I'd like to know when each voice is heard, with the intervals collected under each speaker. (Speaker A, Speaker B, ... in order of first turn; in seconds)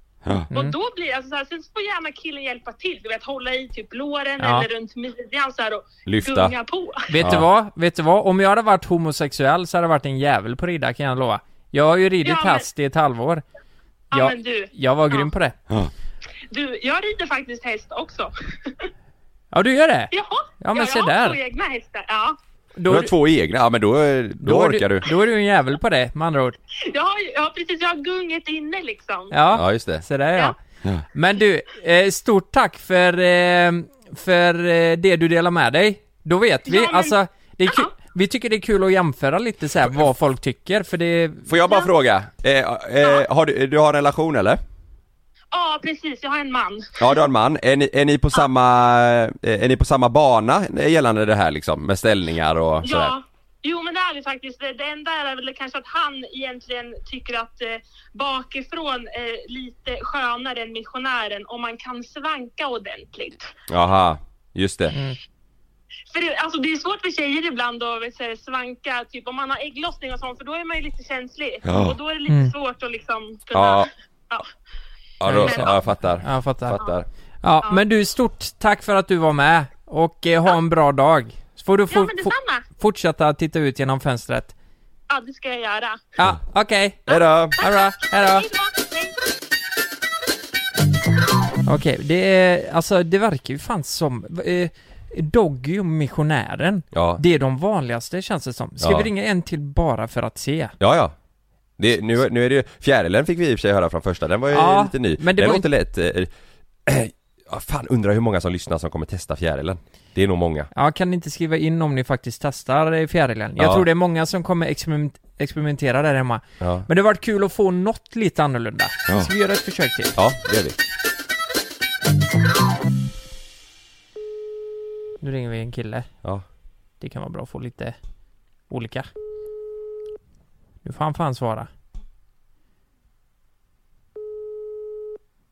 Speaker A: 0.5-7.1, 12.2-12.7, 14.1-15.2, 16.5-18.9, 20.1-22.4, 26.9-29.3, 36.7-37.1, 45.5-46.9, 52.8-63.5, 66.1-74.5, 75.2-75.8, 81.9-82.6, 85.1-86.0, 87.1-89.2
Speaker B: 4.4-4.7, 7.1-13.4, 14.1-15.6, 19.5-21.4, 22.8-23.1, 24.4-26.6, 29.3-30.6, 31.1-41.5, 72.3-72.5, 75.3-76.8, 77.4-84.5, 86.2-88.5, 91.7-100.7, 104.5-105.7, 110.7-120.2, 125.2-126.1, 127.0-128.0, 128.7-129.1, 130.8-131.7
Speaker C: 6.0-6.5, 7.2-7.5, 22.9-25.1, 29.5-30.0, 41.5-44.6, 47.0-53.1, 63.7-64.9, 71.6-72.0, 73.5-73.9, 75.2-77.0, 87.1-87.6, 96.9-97.2, 98.8-99.1, 100.8-101.1, 101.8-106.3, 106.8-110.7, 113.6-113.8, 116.6-116.9, 120.2-120.8